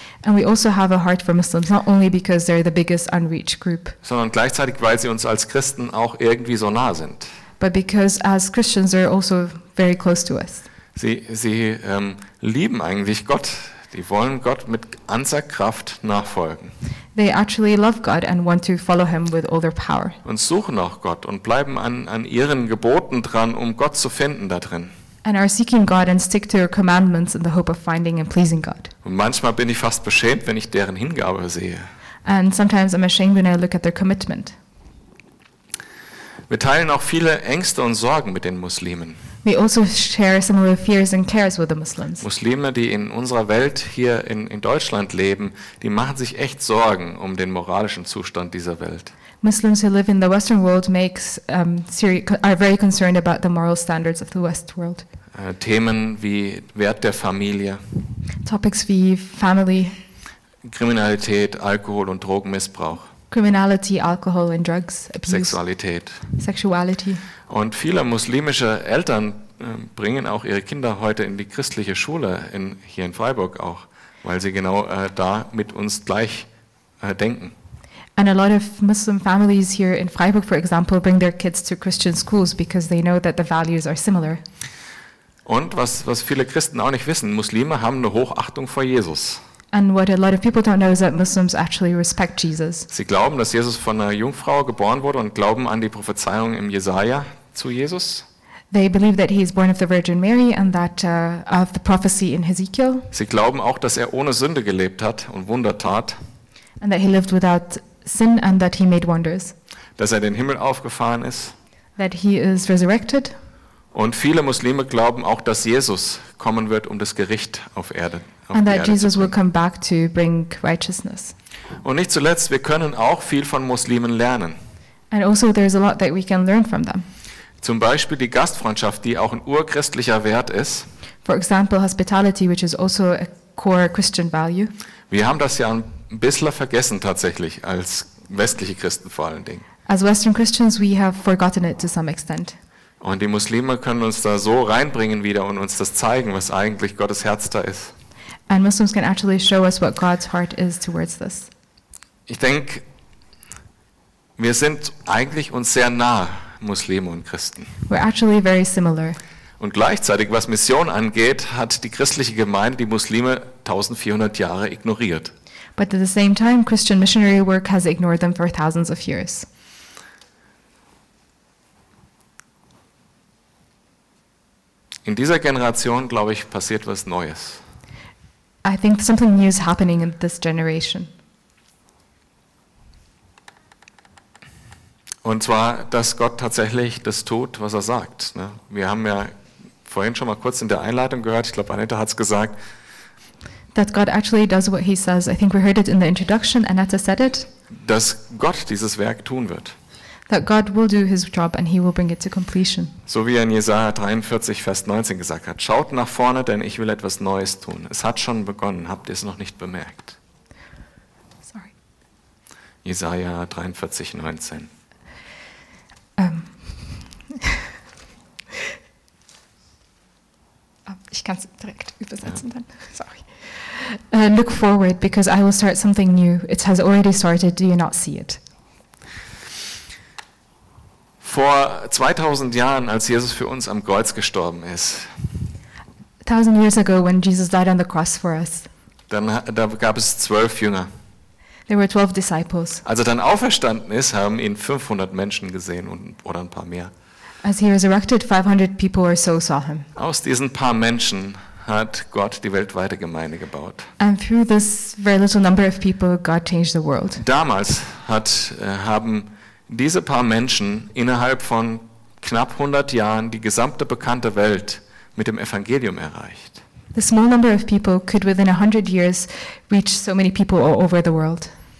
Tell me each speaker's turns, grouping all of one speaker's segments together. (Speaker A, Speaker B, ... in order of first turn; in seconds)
Speaker A: 0.2-3.9, 7.6-10.7, 17.1-20.2, 25.2-28.9, 32.2-34.5, 39.4-42.2, 49.4-55.0, 58.4-60.0, 63.3-65.6, 66.4-67.2, 78.2-84.4, 89.7-92.9, 98.7-103.1, 106.8-109.5, 112.0-113.3, 118.5-121.3, 125.1-127.1, 131.2-134.7, 139.9-142.6, 148.5-151.5, 157.9-159.2, 165.8-169.5, 178.6-181.1, 193.7-197.5, 200.3-202.9, 211.4-211.7, 216.2-217.6, 220.9-228.4, 236.2-238.7, 241.7-242.8, 247.4-249.9, 254.0-257.2, 266.9-271.5
Speaker B: 4.0-7.3, 10.9-16.7, 20.2-24.9, 29.0-31.9, 36.5-39.2, 42.2-49.1, 55.3-57.8, 60.6-63.1, 65.3-66.2, 67.5-76.5, 77.0-77.5, 85.5-89.4, 92.9-98.2, 103.1-106.2, 110.0-111.5, 113.9-119.3, 121.8-124.6, 127.6-130.9, 135.1-139.6, 143.0-147.9, 152.3-152.8, 154.4-157.7, 159.6-165.3, 175.0-177.6, 185.2-192.6, 197.7-199.7, 203.1-210.2, 212.8-214.7, 231.2-235.1, 239.1-240.9, 242.8-246.9, 249.9-253.9, 257.2-266.6